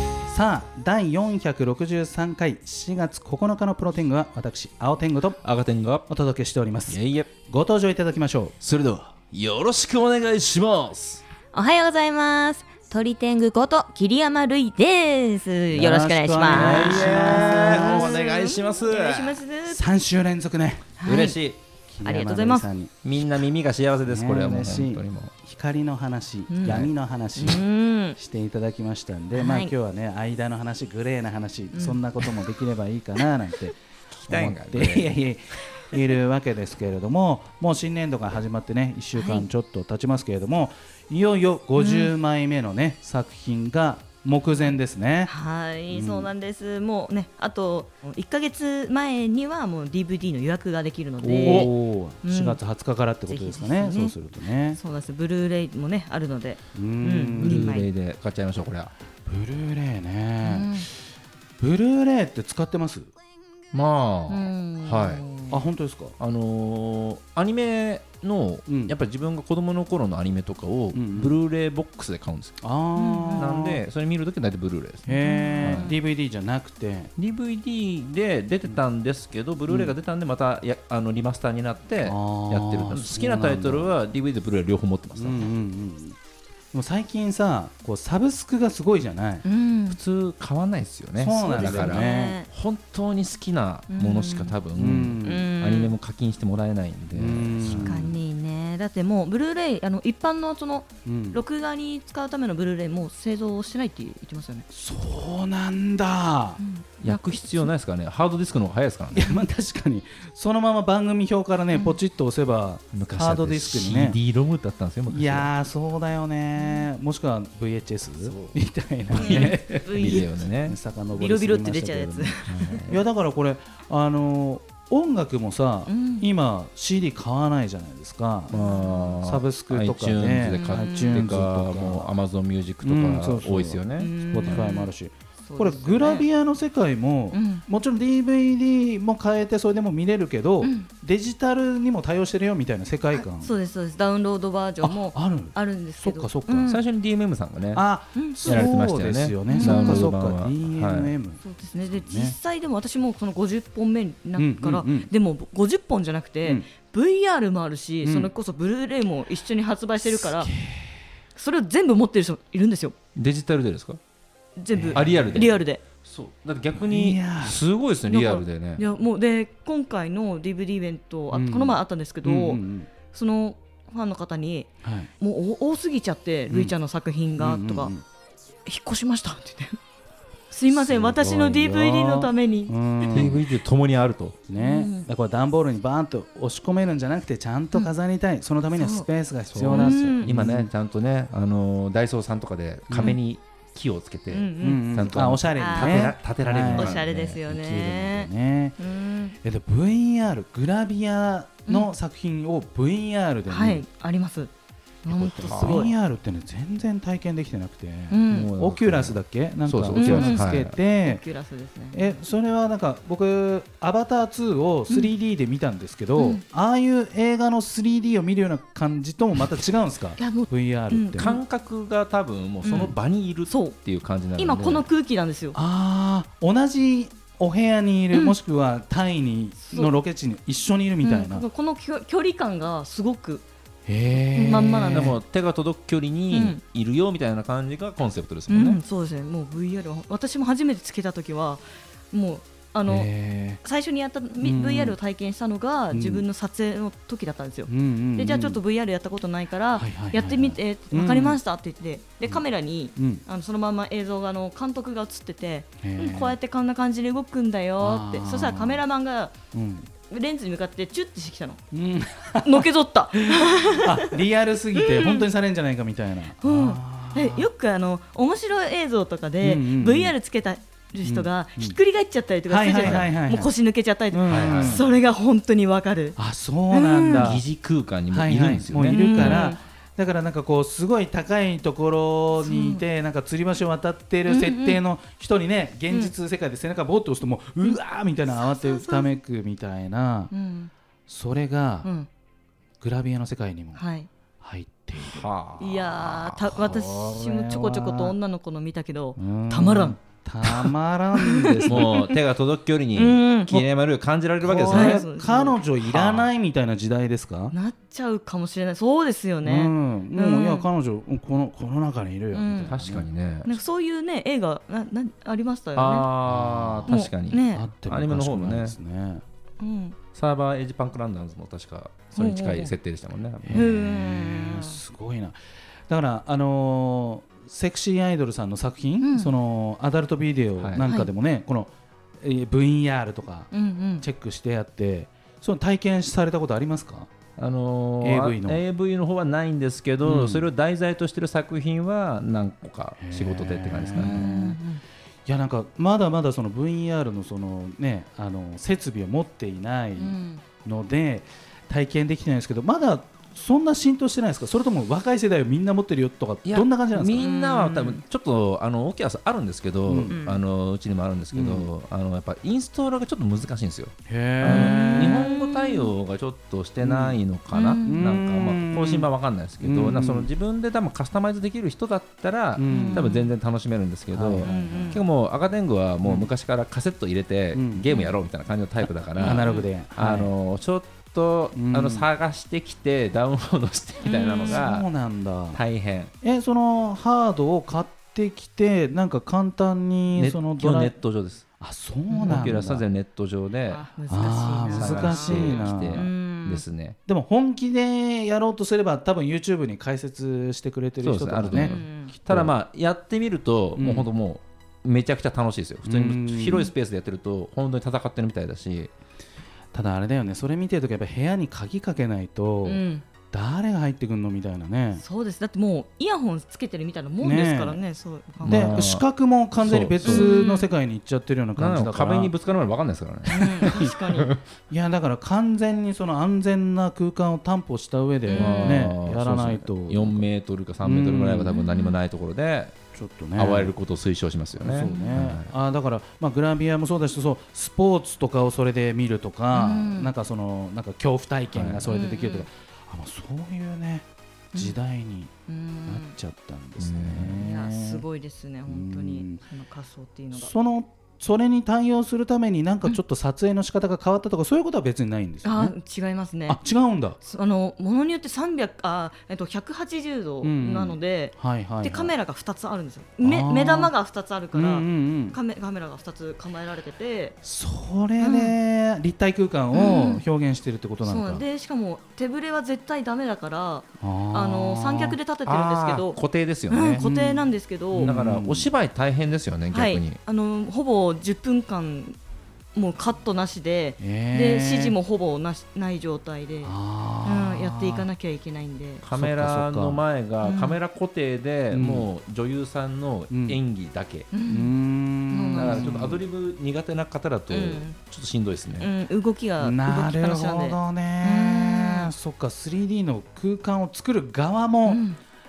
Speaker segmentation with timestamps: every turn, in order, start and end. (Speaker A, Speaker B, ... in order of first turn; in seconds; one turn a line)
Speaker A: 0.3-5.4
Speaker B: 5.4-6.1
Speaker A: 6.1-8.6
Speaker B: 6.9-7.3
Speaker B: 8.6-11.2
Speaker C: 11.5-19.8
Speaker A: 15.7-18.1
Speaker B: 16.4-19.4
Speaker A: 19.7-20.9
Speaker C: 21.0-21.4
Speaker B: 21.1-21.6
Speaker A: 21.9-23.2
Speaker C: 22.0-22.7
Speaker B: 23.0-25.3
Speaker A: 24.1-27.6
Speaker C: 26.5-28.2
Speaker B: 26.6-26.9
Speaker A: 28.2-33.8
Speaker C: 29.3-29.7
Speaker C: 31.7-32.0
Speaker B: 34.1-35.1
Speaker A: 34.3-45.3
Speaker C: 39.1-39.5
Speaker C: 41.8-42.1
Speaker C: 45.3-51.7
Speaker A: 45.9-46.3
Speaker A: 51.2-54.8
Speaker B: 51.4-51.7
Speaker C: 52.2-52.6
Speaker C: 53.3-54.1
Speaker C: 54.8-57.9
Speaker A: 56.7-57.8
Speaker B: 57.4-58.9
Speaker A: 59.3-60.9
Speaker C: 60.4-60.9
Speaker A: 61.6-63.1
Speaker B: 63.7-65.2
Speaker C: 64.3-65.6
Speaker A: 65.5-66.2
Speaker B: 66.2-72.6
Speaker A: 68.7-69.0
Speaker A: 70.9-71.4
Speaker A: 72.6-73.8
Speaker C: 73.0-73.4
Speaker B: 73.3-75.1
Speaker A: 75.1-77.1
Speaker C: 75.1-76.0
Speaker B: 75.6-75.9
Speaker B: 77.2-85.5
Speaker A: 79.7-80.0
Speaker A: 82.0-83.9
Speaker A: 85.2-86.2
Speaker A: 86.7-89.5
Speaker C: 89.4-90.0
Speaker B: 89.9-98.1
Speaker A: 91.2-92.4
Speaker C: 91.3-92.5
Speaker C: 93.9-94.5
Speaker A: 94.8-95.5
Speaker C: 95.2-95.9
Speaker A: 97.2-98.1
Speaker C: 97.8-104.7
Speaker A: 101.0-101.4
Speaker A: 104.7-106.6
Speaker C: 106.6-107.7
Speaker B: 107.0-109.3
Speaker A: 109.1-114.2
Speaker C: 111.7-112.0
Speaker B: 112.9-115.5
Speaker A: 115.1-128.6
Speaker C: 116.6-116.9
Speaker B: 118.2-118.6
Speaker B: 119.1-120.8
Speaker C: 119.1-120.3
Speaker C: 121.1-122.8
Speaker B: 122.5-123.0
Speaker C: 125.9-126.3
Speaker B: 128.5-134.7
Speaker C: 128.5-129.2
Speaker A: 129.2-132.1
Speaker C: 130.5-131.3
Speaker A: 132.8-143.5
Speaker C: 134.0-134.9
Speaker C: 135.5-136.3
Speaker C: 137.3-137.6
Speaker C: 140.6-140.9
Speaker C: 143.1-146.8
Speaker A: 144.8-146.8
Speaker B: 146.7-147.8
Speaker A: 147.7-152.4
Speaker C: 148.2-148.7
Speaker B: 148.4-151.1
Speaker C: 149.5-150.1
Speaker C: 151.4-160.5
Speaker A: 154.4-155.1
Speaker A: 158.0-158.3
Speaker A: 160.1-160.9
Speaker C: 161.4-162.9
Speaker B: 163.2-164.0
Speaker C: 164.6-165.8
Speaker A: 164.7-165.4
Speaker B: 164.9-168.8
Speaker A: 166.8-167.6
Speaker C: 168.1-177.9
Speaker A: 171.3-172.9
Speaker A: 174.8-175.1
Speaker A: 176.5-176.8
Speaker A: 177.4-178.0
Speaker C: 178.7-179.8
Speaker C: 180.5-183.3
Speaker A: 180.7-183.4
Speaker B: 183.1-184.4
Speaker A: 184.5-190.7
Speaker C: 184.6-185.1
Speaker C: 188.8-189.1
Speaker B: 189.5-197.4
Speaker C: 189.7-190.3
Speaker A: 192.9-193.2
Speaker C: 194.3-196.2
Speaker A: 194.6-198.8
Speaker C: 196.7-199.3
Speaker A: 199.4-203.8
Speaker C: 203.5-204.5
Speaker C: 205.0-205.9
Speaker B: 205.1-205.9
Speaker A: 205.3-211.2
Speaker C: 208.1-208.5
Speaker B: 208.3-210.8
Speaker C: 209.9-210.5
Speaker C: 211.0-212.2
Speaker A: 211.9-221.3
Speaker C: 216.2-216.4
Speaker C: 220.2-221.4
Speaker B: 221.2-224.9
Speaker C: 222.6-222.9
Speaker C: 223.5-223.8
Speaker C: 224.4-225.6
Speaker A: 225.6-231.5
Speaker C: 229.6-229.9
Speaker C: 231.0-233.4
Speaker A: 233.9-235.2
Speaker C: 234.1-235.2
Speaker B: 234.9-238.8
Speaker C: 236.3-236.6
Speaker C: 238.5-243.1
Speaker A: 242.9-243.6
Speaker C: 243.6-259.3
Speaker A: 244.4-245.0
Speaker A: 245.9-246.3
Speaker A: 247.7-248.6
Speaker A: 249.8-251.4
Speaker A: 253.0-253.2
Speaker A: 255.8-256.4
Speaker A: 257.8-258.8
Speaker A: 259.5-259.9
Speaker C: 260.1-261.6
Speaker A: 261.7-267.5
Speaker C: 262.4-264.2
Speaker C: 264.7-265.3
Speaker C: 266.4-276.2
Speaker A: 269.4-270.1
Speaker A: 271.0-271.8
Speaker A: 272.5-273.5
Speaker B: 272.8-273.1
Speaker A: 274.1-274.9
Speaker B: 274.3-274.8
Speaker A: 276.2-277.4
Speaker C: 276.7-277.3
Speaker B: 277.1-279.5
Speaker A: 278.1-290.3
Speaker C: 278.9-279.6
Speaker C: 282.4-282.8
Speaker C: 284.3-284.8
Speaker C: 288.3-289.1
Speaker C: 290.3-290.7
Speaker A: 291.1-291.9
Speaker A: 292.8-293.8
Speaker C: 293.8-294.1
Speaker A: 294.4-295.3
Speaker B: 295.0-296.5
Speaker C: 295.6-302.2
Speaker A: 296.5-298.1
Speaker A: 299.2-301.9
Speaker B: 301.7-305.1
Speaker C: 302.9-303.6
Speaker A: 304.4-307.5
Speaker C: 304.7-305.6
Speaker B: 305.8-306.3
Speaker C: 307.5-310.7
Speaker A: 309.4-313.1
Speaker C: 312.3-312.7
Speaker B: 312.7-313.6
Speaker C: 313.4-316.1
Speaker B: 315.8-318.8
Speaker A: 316.3-317.0
Speaker C: 316.9-317.6
Speaker A: 317.5-319.2
Speaker C: 319.6-320.0
Speaker B: 320.1-323.7
Speaker C: 322.2-322.7
Speaker A: 323.4-325.4
Speaker C: 323.5-324.8
Speaker A: 325.9-337.1
Speaker C: 329.0-329.3
Speaker B: 330.6-330.9
Speaker C: 333.5-334.1
Speaker B: 337.4-344.4
Speaker A: 338.0-338.6
Speaker A: 340.0-340.5
Speaker A: 343.0-344.6
Speaker C: 343.9-344.8
Speaker A: 345.3-357.3
Speaker C: 350.0-350.4
Speaker B: 356.4-384.9
Speaker C: 357.2-358.0
Speaker A: 359.9-360.2
Speaker C: 360.1-360.4
Speaker A: 361.3-361.7
Speaker A: 364.1-365.3
Speaker C: 364.4-365.9
Speaker A: 366.8-367.2
Speaker C: 367.5-368.1
Speaker A: 367.8-369.1
Speaker A: 369.6-370.3
Speaker A: 372.6-373.1
Speaker C: 372.7-373.3
Speaker A: 374.1-375.0
Speaker C: 374.4-375.0
Speaker A: 376.0-376.3
Speaker A: 377.5-377.9
Speaker C: 379.2-379.7
Speaker A: 379.2-380.3
Speaker A: 381.5-382.1
Speaker C: 384.1-384.6
Speaker A: 384.4-385.6
Speaker B: 385.5-386.1
Speaker A: 386.2-391.0
Speaker B: 390.2-391.4
Speaker A: 391.6-392.9
Speaker C: 392.1-392.5
Speaker B: 392.2-393.8
Speaker C: 393.7-396.6
Speaker A: 394.1-396.1
Speaker B: 394.7-397.0
Speaker A: 397.1-402.5
Speaker B: 401.0-408.9
Speaker C: 401.5-402.1
Speaker A: 403.8-404.1
Speaker A: 405.8-406.7
Speaker A: 409.7-415.0
Speaker C: 412.6-413.1
Speaker C: 415.0-418.8
Speaker A: 417.2-417.8
Speaker A: 418.4-422.3
Speaker B: 418.4-419.1
Speaker B: 419.6-420.4
Speaker C: 420.0-420.7
Speaker B: 421.6-424.4
Speaker C: 423.3-424.3
Speaker A: 424.7-430.3
Speaker C: 428.3-428.9
Speaker B: 428.3-432.8
Speaker A: 430.8-431.6
Speaker C: 431.5-431.9
Speaker A: 432.9-433.7
Speaker B: 433.4-435.5
Speaker A: 434.6-445.3
Speaker C: 434.9-435.1
Speaker C: 439.5-440.1
Speaker B: 441.5-441.9
Speaker C: 441.9-442.5
Speaker C: 445.5-446.1
Speaker A: 445.9-448.1
Speaker B: 446.8-447.4
Speaker C: 447.4-450.5
Speaker A: 448.7-449.4
Speaker A: 450.3-455.7
Speaker C: 455.4-456.6
Speaker A: 456.5-457.2
Speaker C: 457.2-467.4
Speaker A: 460.4-462.1
Speaker A: 463.2-463.9
Speaker A: 464.5-465.4
Speaker A: 467.4-471.4
Speaker C: 468.2-468.6
Speaker C: 469.7-470.2
Speaker C: 471.0-476.2
Speaker A: 474.0-475.2
Speaker B: 475.4-477.0
Speaker C: 476.7-478.1
Speaker A: 477.0-478.7
Speaker B: 478.0-480.2
Speaker C: 479.7-482.2
Speaker C: 482.7-489.0
Speaker A: 484.0-484.9
Speaker A: 486.6-488.1
Speaker B: 489.0-494.3
Speaker A: 489.1-490.0
Speaker C: 490.4-490.8
Speaker A: 491.7-492.1
Speaker A: 493.3-493.6
Speaker C: 494.3-494.7
Speaker A: 494.5-496.2
Speaker C: 495.3-496.1
Speaker B: 495.6-498.9
Speaker C: 497.5-498.0
Speaker C: 498.8-502.1
Speaker A: 499.6-505.0
Speaker C: 504.9-505.2